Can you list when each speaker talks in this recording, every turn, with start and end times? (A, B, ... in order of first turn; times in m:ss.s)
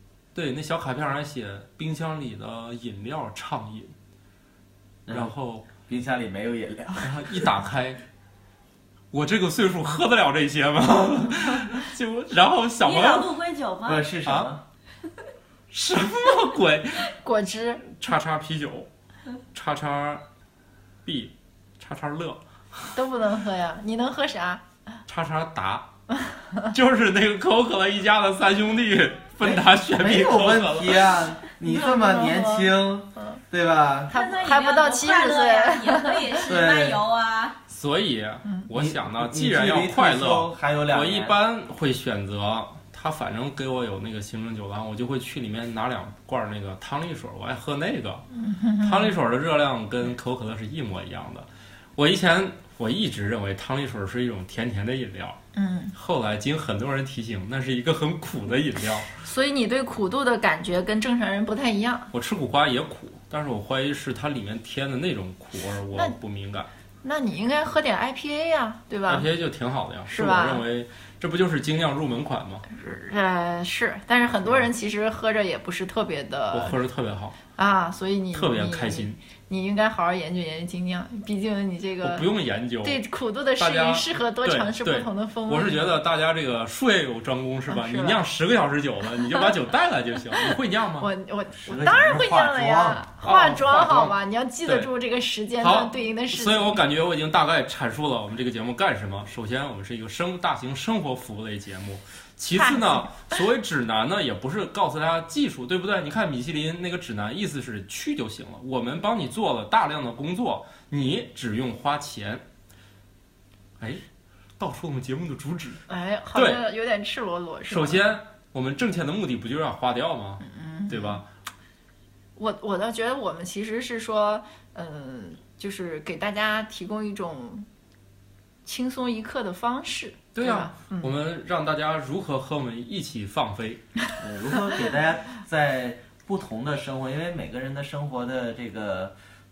0:00.3-0:03.9 A
0:05.1-0:07.5 B
0:05.1-0:05.7 A
0:07.0-0:08.0 A
0:09.1-0:13.3 A
0:12.8-0:14.1 C
0:13.8-0:14.6 B
0:15.7-0:17.1 A
0:17.2-0:17.8 D
0:17.9-0:18.9 A
0:19.5-0:20.2 A
0:21.0-0:22.4 A
0:22.9-0:24.6 D
0:25.1-0:25.9 A
0:26.3-0:26.6 D
0:26.7-0:31.1 A
0:29.4-0:34.1 B
0:31.7-0:32.7 D
0:34.1-0:36.3 D
0:34.1-0:37.6 C
0:36.4-0:37.0 B
0:37.7-0:48.3 A
0:38.7-0:41.4 B
0:48.3-0:49.2 D
0:48.8-0:55.4 A
0:55.6-0:55.9 D
0:56.0-0:59.1 A
0:59.2-1:02.1 D
1:02.1-1:06.7 A
1:07.0-1:09.3 D
1:09.1-1:12.7 A
1:10.1-1:10.6 D
1:12.7-1:16.8 D
1:16.5-1:17.4 A
1:17.6-1:22.3 D
1:18.3-1:19.2 A
1:22.0-1:23.0 A
1:22.8-1:26.0 D
1:23.6-1:31.1 A
1:27.7-1:28.2 D
1:31.0-1:36.8 D
1:31.6-1:33.1 B
1:33.2-1:34.1 A
1:35.6-1:52.4 A
1:42.5-1:43.3 D
1:54.6-1:55.8 A
1:55.9-1:58.0 D
1:56.3-1:56.6 A
1:57.7-2:01.3 A
2:00.4-2:01.2 D
2:02.4-2:07.7 D
2:08.6-2:11.1 D
2:10.4-2:13.8 A
2:14.2-2:19.1 B